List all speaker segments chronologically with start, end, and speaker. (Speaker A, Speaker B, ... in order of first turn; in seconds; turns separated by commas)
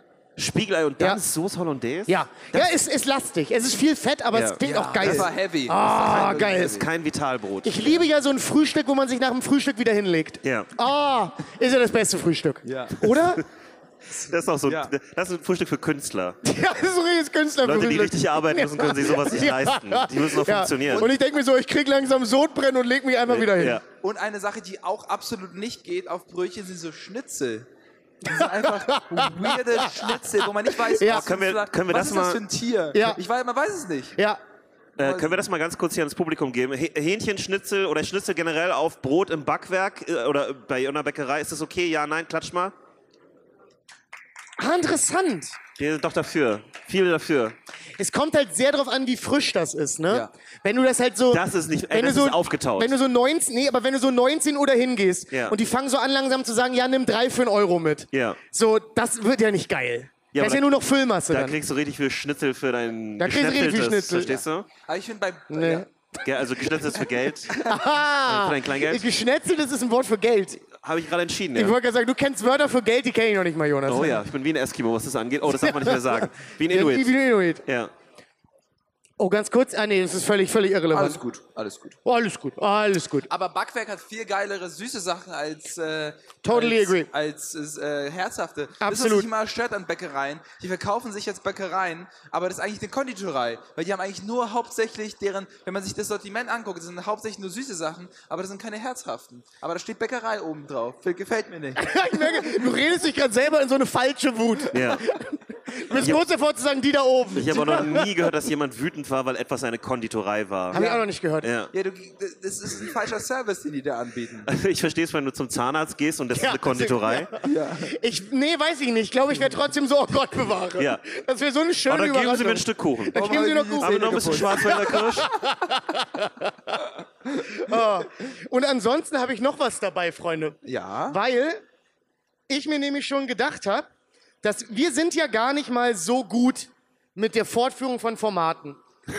Speaker A: 0.4-2.7, Speaker B: 2.1-6.8, Speaker A: 4.3-5.3, Speaker C: 4.6-6.8, Speaker A: 6.3-8.1, Speaker B: 7.6-13.4, Speaker A: 10.4-10.7, Speaker C: 12.6-13.1, Speaker A: 14.2-16.4, Speaker C: 14.7-14.9, Speaker B: 16.4-23.8, Speaker A: 17.6-21.1, Speaker A: 23.3-23.8, Speaker C: 24.0-27.7, Speaker C: 28.2-34.1, Speaker B: 28.3-30.2, Speaker B: 30.9-31.3, Speaker A: 31.1-32.4, Speaker B: 32.9-33.2, Speaker C: 35.0-35.4, Speaker A: 35.0-42.8, Speaker B: 44.6-45.6, Speaker A: 45.8-47.6, Speaker B: 48.0-61.6, Speaker A: 51.3-52.9, Speaker A: 55.3-55.6, Speaker A: 58.1-58.4, Speaker A: 60.3-60.7, Speaker A: 61.3-64.7, Speaker B: 63.2-64.4, Speaker C: 64.9-65.9, Speaker B: 65.5-65.9, Speaker A: 66.2-67.5, Speaker B: 67.5-70.6, Speaker A: 68.2-69.1, Speaker A: 70.7-71.8, Speaker B: 71.5-74.2, Speaker A: 73.9-77.1, Speaker B: 75.5-77.6, Speaker A: 77.7-77.9, Speaker B: 79.2-81.2, Speaker C: 80.9-82.0, Speaker B: 82.0-83.3, Speaker C: 83.3-101.9, Speaker B: 86.4-87.1, Speaker B: 88.8-89.3, Speaker B: 101.8-108.1, Speaker A: 104.7-105.0, Speaker A: 105.9-106.2, Speaker A: 107.3-110.8, Speaker B: 110.7-111.5, Speaker C: 110.7-111.0, Speaker A: 111.4-111.7, Speaker C: 111.7-114.5, Speaker A: 114.5-117.3, Speaker B: 116.3-126.8, Speaker C: 117.4-117.9, Speaker A: 121.9-125.3, Speaker C: 123.1-125.0, Speaker B: 127.4-130.6, Speaker C: 130.6-131.2, Speaker B: 131.1-131.6, Speaker B: 132.5-133.9, Speaker B: 134.4-138.8